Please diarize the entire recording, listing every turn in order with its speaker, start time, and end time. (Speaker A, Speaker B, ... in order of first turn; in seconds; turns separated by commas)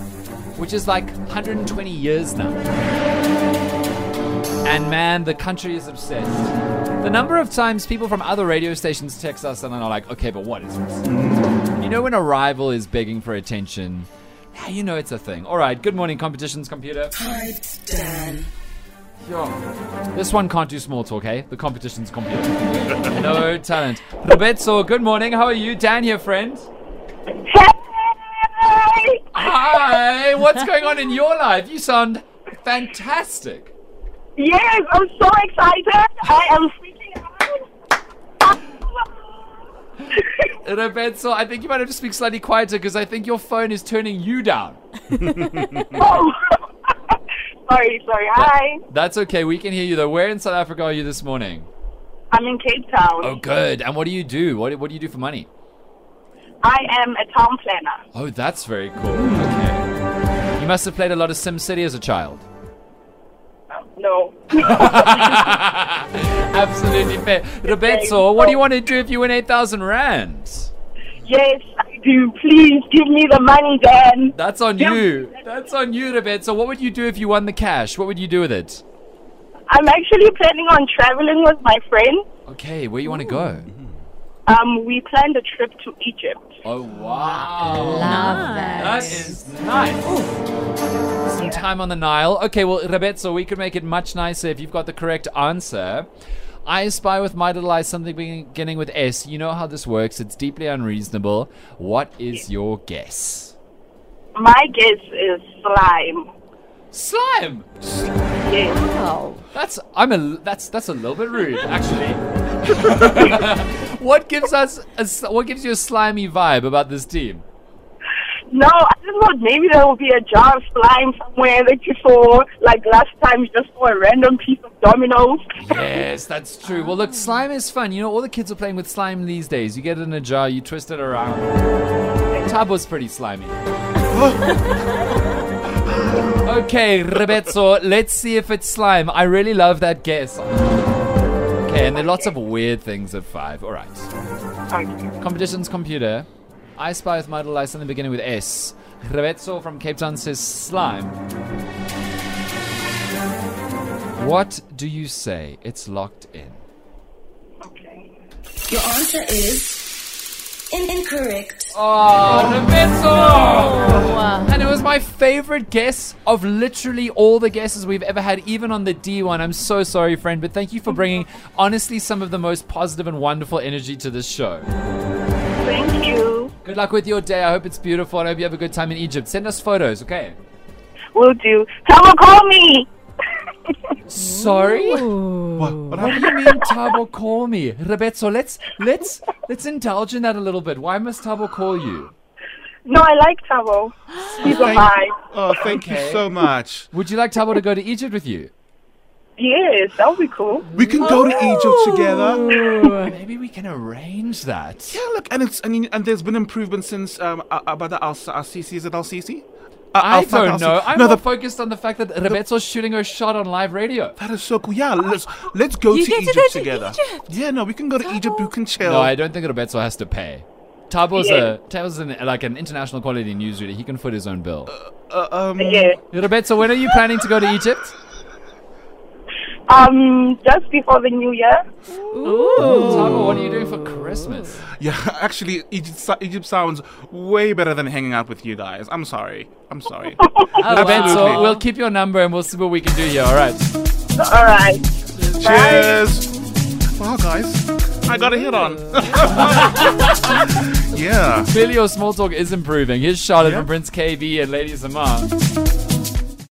Speaker A: 0.6-2.7, Speaker A: 4.6-6.5, Speaker A: 7.0-11.1, Speaker B: 11.0-11.5, Speaker A: 11.8-17.1, Speaker C: 17.1-18.5, Speaker A: 19.2-19.6, Speaker A: 20.1-26.7, Speaker D: 27.5-29.2, Speaker A: 29.3-33.7, Speaker D: 34.4-37.6, Speaker A: 40.1-44.8, Speaker B: 45.4-45.7, Speaker D: 45.8-47.1, Speaker D: 47.7-48.8, Speaker A: 48.3-51.7, Speaker D: 52.3-53.4, Speaker A: 53.2-55.5, Speaker D: 56.6-58.0, Speaker A: 58.1-59.9, Speaker A: 60.6-62.4, Speaker D: 63.9-65.6, Speaker A: 64.6-70.7, Speaker D: 67.6-68.5, Speaker D: 71.2-75.0, Speaker A: 74.3-78.8, Speaker D: 79.7-82.2, Speaker A: 82.5-83.7, Speaker D: 84.5-86.4, Speaker A: 86.6-90.3, Speaker E: 87.7-89.3, Speaker A: 91.2-96.1, Speaker A: 96.6-103.5, Speaker D: 104.3-106.3, Speaker A: 106.9-107.9, Speaker D: 108.4-108.9, Speaker E: 108.7-109.4, Speaker A: 109.5-117.4, Speaker D: 118.5-125.4, Speaker A: 125.6-131.5, Speaker A: 132.4-133.6, Speaker B: 134.1-134.6, Speaker B: 135.8-136.3, Speaker A: 136.4-140.9, Speaker A: 141.6-144.1, Speaker D: 141.9-142.3, Speaker D: 144.7-145.1, Speaker A: 145.2-151.2, Speaker A: 154.2-156.6, Speaker D: 157.6-158.1, Speaker C: 158.7-160.0, Speaker C: 160.7-161.7, Speaker A: 161.7-174.7, Speaker E: 163.5-164.5, Speaker D: 175.6-176.5, Speaker A: 176.6-180.4, Speaker D: 181.1-182.9, Speaker A: 184.1-185.1, Speaker E: 184.2-186.0, Speaker B: 185.6-186.4, Speaker A: 186.0-192.1, Speaker D: 192.8-195.1, Speaker B: 194.4-196.9, Speaker A: 195.6-196.2, Speaker A: 196.9-198.5, Speaker D: 199.4-200.7, Speaker B: 200.7-202.5, Speaker E: 200.8-203.1, Speaker A: 202.8-205.0, Speaker B: 204.9-211.3, Speaker A: 210.0-214.2, Speaker B: 214.2-219.1, Speaker E: 215.9-217.2, Speaker E: 218.1-218.4, Speaker A: 218.8-224.7, Speaker D: 221.2-221.5, Speaker B: 224.7-226.0, Speaker D: 225.6-226.0, Speaker A: 226.1-227.9, Speaker D: 229.7-231.6, Speaker E: 232.1-233.4, Speaker A: 232.2-234.7, Speaker B: 234.8-241.5, Speaker D: 240.3-240.6, Speaker E: 240.6-241.6, Speaker A: 240.7-243.7, Speaker D: 244.2-246.0, Speaker B: 245.4-246.3, Speaker B: 247.0-249.8, Speaker A: 249.4-250.6, Speaker B: 250.8-251.5, Speaker A: 251.5-255.3, Speaker B: 253.4-253.7